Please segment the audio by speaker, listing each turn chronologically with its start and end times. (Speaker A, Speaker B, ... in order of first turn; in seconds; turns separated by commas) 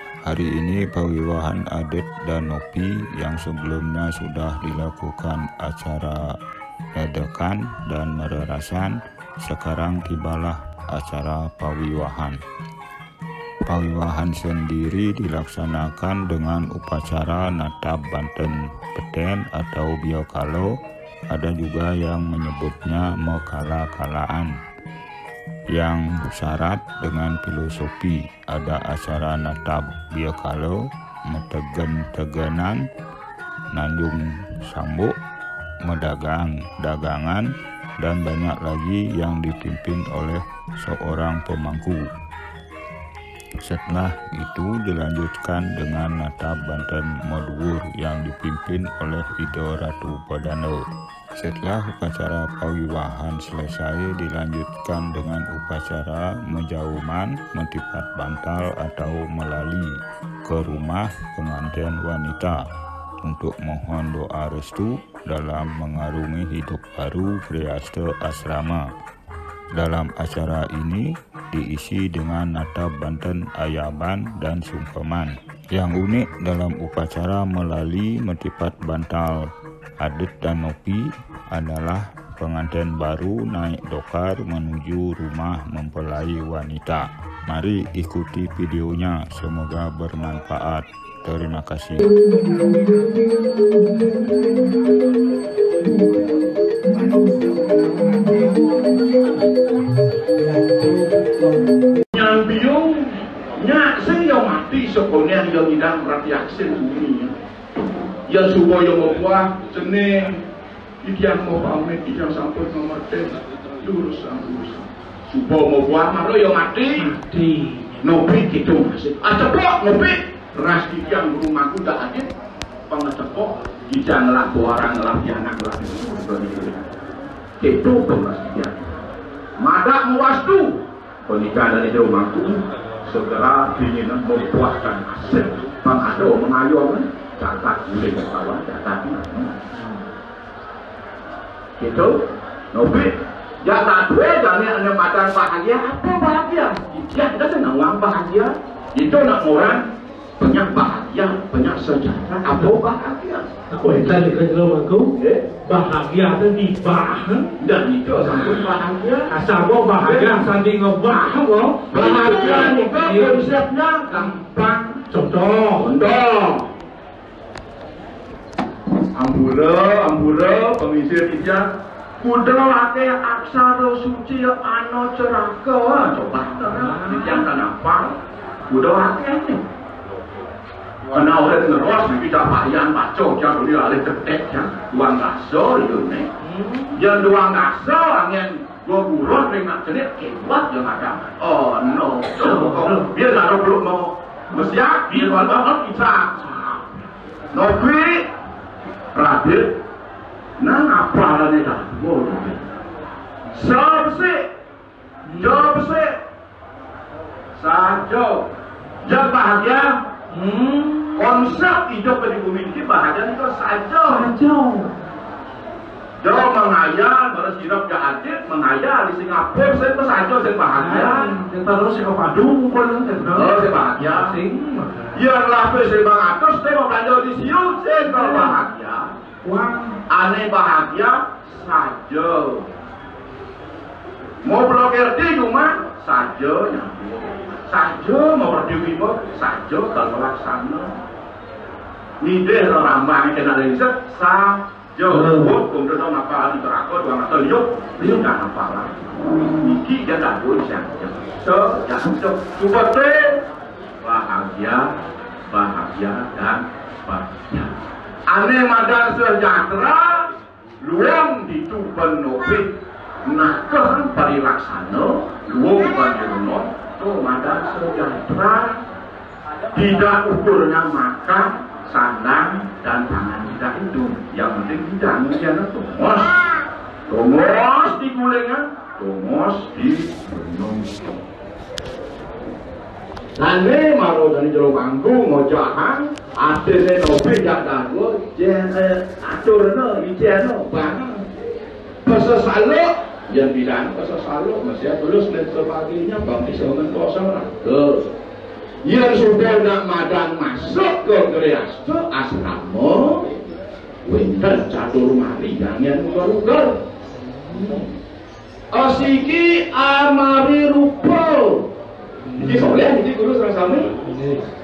Speaker A: 0.2-6.4, Speaker A: 7.0-12.4, Speaker A: 13.7-20.8, Speaker A: 21.3-24.6, Speaker A: 25.7-32.8, Speaker A: 33.7-35.1, Speaker A: 35.8-42.1, Speaker A: 43.6-50.8, Speaker A: 51.4-62.6, Speaker A: 63.2-68.8, Speaker A: 69.7-92.4, Speaker B: 102.1-107.3, Speaker B: 108.3-110.4, Speaker B: 111.0-117.2, Speaker C: 117.0-118.0, Speaker B: 118.0-122.3, Speaker B: 122.9-126.9, Speaker B: 127.6-128.9, Speaker B: 129.6-139.7, Speaker B: 141.8-149.8, Speaker B: 150.4-153.5, Speaker C: 153.7-157.5, Speaker B: 155.2-155.5, Speaker B: 157.6-159.3, Speaker C: 159.3-163.5, Speaker B: 160.0-160.5, Speaker B: 161.9-165.1, Speaker C: 165.1-165.8, Speaker B: 165.7-166.7, Speaker B: 169.1-178.2, Speaker C: 176.7-177.4, Speaker B: 178.7-179.6, Speaker B: 181.1-186.3, Speaker C: 186.4-187.0, Speaker B: 186.9-196.9, Speaker C: 192.4-193.1, Speaker B: 197.5-198.2, Speaker B: 199.1-199.7, Speaker B: 200.6-202.6, Speaker B: 203.5-204.4, Speaker C: 205.3-205.6, Speaker B: 205.3-206.1, Speaker B: 207.6-208.5, Speaker B: 209.0-210.0, Speaker C: 210.3-211.4, Speaker B: 211.2-214.3, Speaker C: 214.1-214.9, Speaker B: 216.2-221.3, Speaker C: 220.8-225.2, Speaker B: 223.3-224.3, Speaker B: 225.1-229.1, Speaker C: 228.1-228.6, Speaker C: 229.4-230.0, Speaker B: 230.1-232.7, Speaker B: 234.4-240.9, Speaker B: 242.2-253.4, Speaker C: 245.1-245.5, Speaker B: 254.0-254.9, Speaker B: 255.5-257.7, Speaker B: 258.3-260.3, Speaker B: 260.8-262.7, Speaker B: 263.2-268.8, Speaker B: 269.7-276.5, Speaker B: 277.1-281.1, Speaker B: 283.4-291.2, Speaker B: 292.0-298.1, Speaker B: 298.8-303.4, Speaker B: 304.0-306.8, Speaker C: 307.5-307.9, Speaker B: 308.7-311.7, Speaker C: 312.3-312.8, Speaker B: 312.4-313.9, Speaker C: 314.0-314.5